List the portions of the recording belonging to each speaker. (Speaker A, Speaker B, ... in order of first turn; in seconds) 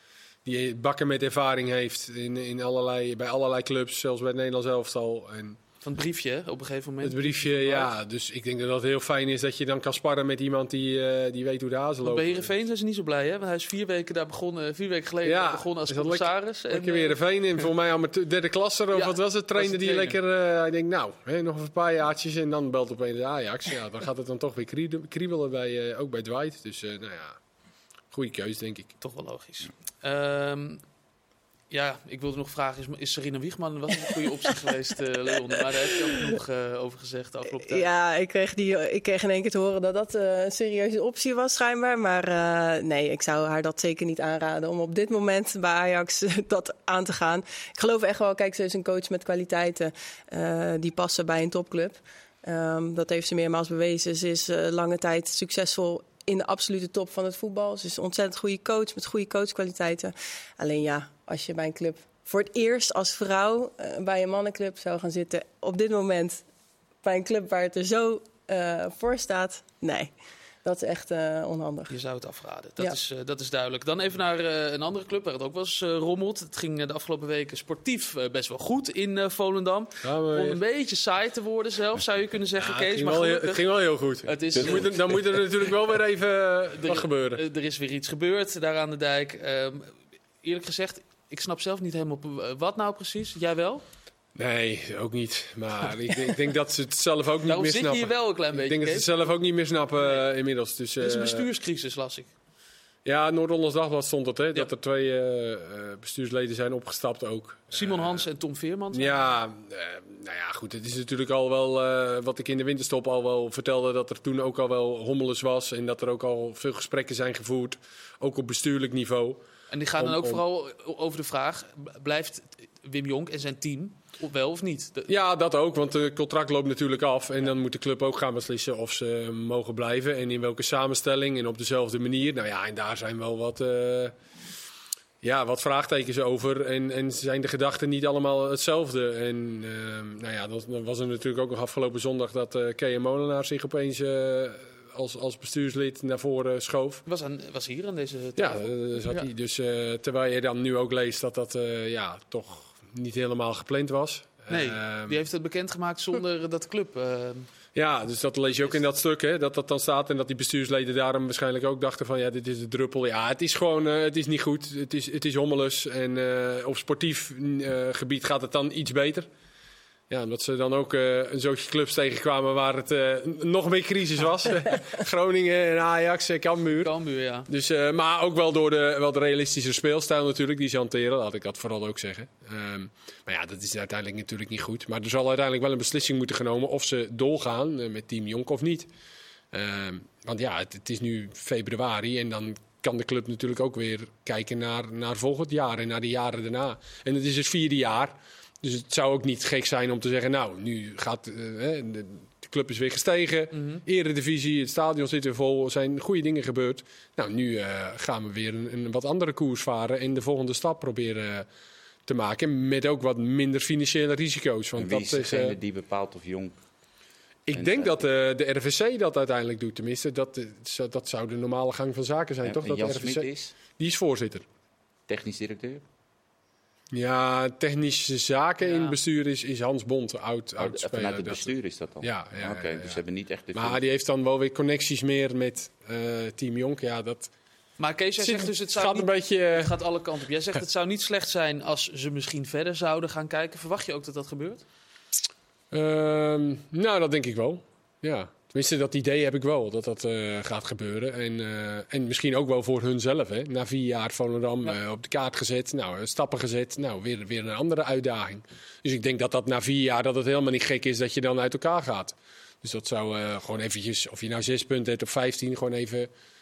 Speaker A: 0.4-5.6, 7.0-12.4, 15.2-27.4, 28.1-28.9, 80.0-80.6, 82.6-87.4, 94.3-101.4, 103.0-108.2, 108.9-119.4, 120.0-120.4, 125.1-134.2, 135.2-147.0, 148.4-155.2, 157.7-169.3, 170.1-176.9, 177.5-188.9, 189.5-211.4, 212.1-215.6, 217.5-224.4, 226.9-231.5, 232.0-233.0, 233.5-237.3, 238.2-239.7, 245.7-266.1
Speaker B: 5.8-7.9, 12.0-17.7, 18.9-20.2, 29.0-30.8, 31.7-37.9, 71.9-83.7, 84.2-85.0, 86.8-93.8, 97.5-99.3, 100.0-100.2, 101.0-102.3, 107.7-109.3, 119.7-125.1, 147.1-149.3, 154.5-157.5, 176.8-177.5, 203.5-203.8, 228.6-229.0, 237.8-244.6
Speaker C: 37.6-66.4, 67.0-70.1, 70.6-71.9
Speaker D: 84.5-85.1, 214.8-216.6, 217.5-218.0, 222.4-223.5, 225.1-225.8, 230.6-233.8